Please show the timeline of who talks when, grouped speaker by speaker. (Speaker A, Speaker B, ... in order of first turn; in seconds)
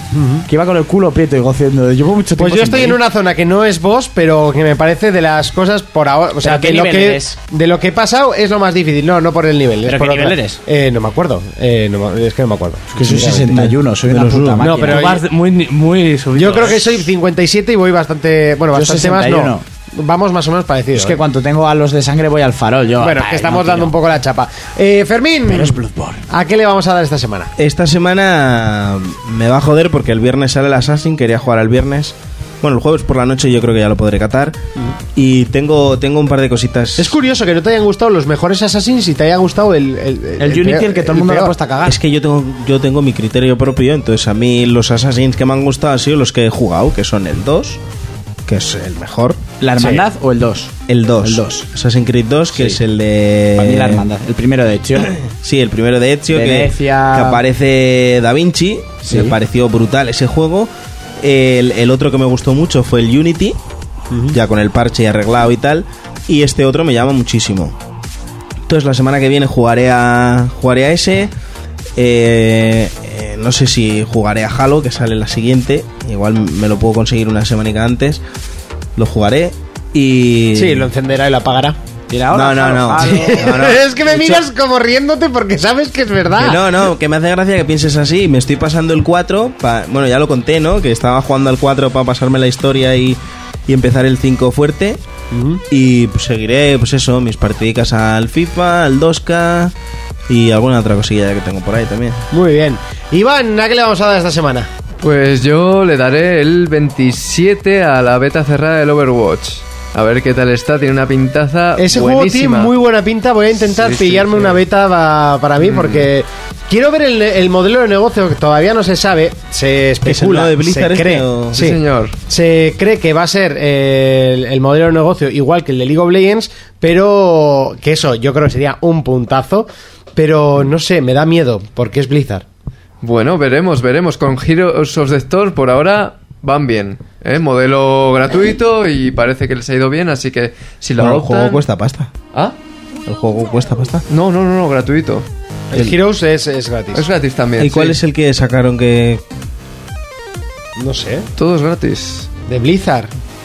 Speaker A: 0.1-0.4, 2.4-13.5, 14.6-15.2, 16.3-21.2, 23.0-25.8, 26.3-27.5, 37.0-41.6, 80.5-81.8, 83.0-86.6, 95.3-95.6, 102.3-104.7, 111.8-132.4, 145.7-147.1, 150.8-151.2, 152.4-153.1
Speaker B: 0.5-3.0, 6.4-7.4, 9.8-10.6, 12.9-15.2, 18.7-19.6, 20.9-23.9, 25.5-26.2, 40.4-42.0, 49.6-51.6, 52.5-52.8, 53.5-55.1, 56.3-57.4, 59.0-59.4, 82.1-84.4
Speaker C: 13.1-14.8, 27.6-34.6, 35.1-37.1, 41.8-47.8, 48.5-49.4, 50.9-54.0, 55.3-60.7, 61.2-63.6, 64.3-67.8, 68.7-71.3, 72.0-78.2, 79.0-80.9, 82.3-83.8, 86.4-95.0, 95.7-99.7, 100.3-102.2, 120.0-121.6, 141.0-142.1, 143.1-144.0, 147.6-149.2
Speaker D: 14.9-17.0
Speaker E: 105.0-112.7, 113.7-114.6, 115.6-116.1, 121.5-122.2, 133.0-141.6, 144.1-145.2, 146.9-148.0, 151.4-152.3